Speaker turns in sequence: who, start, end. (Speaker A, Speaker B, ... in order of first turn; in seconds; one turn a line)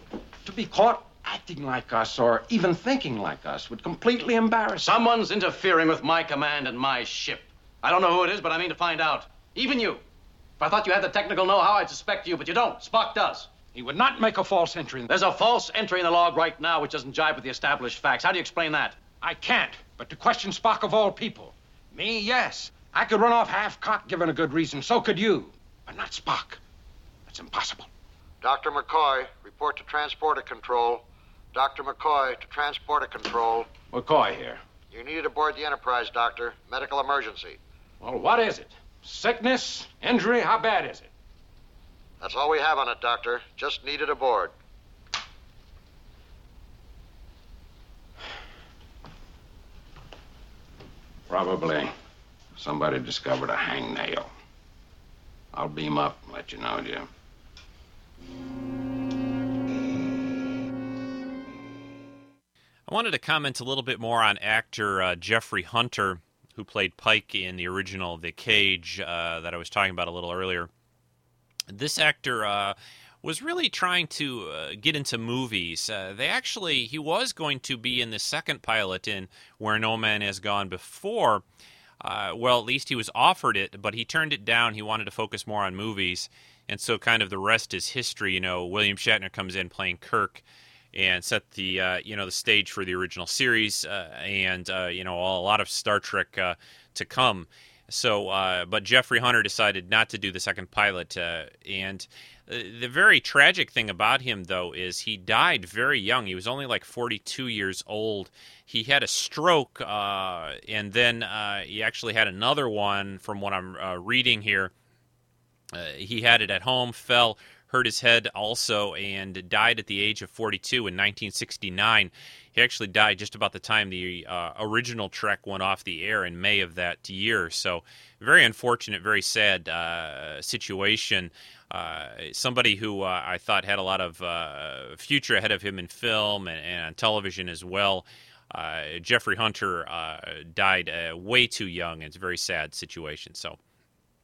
Speaker A: 0.5-5.0
Speaker B: 4.8-10.0
Speaker B: 10.6-13.5
Speaker A: 13.6-15.6
Speaker B: 15.1-19.0
Speaker A: 19.1-26.6
Speaker A: 27.3-27.9
Speaker C: 28.4-33.7
Speaker A: 33.9-34.6
Speaker C: 34.9-37.6
Speaker A: 38.0-41.1
Speaker C: 42.2-44.5
Speaker A: 51.3-51.9
Speaker A: 52.5-54.3
Speaker A: 55.5-57.1
Speaker D: 62.9-70.7
Speaker D: 71.7-81.4
Speaker D: 82.0-114.7
Speaker D: 115.7-143.6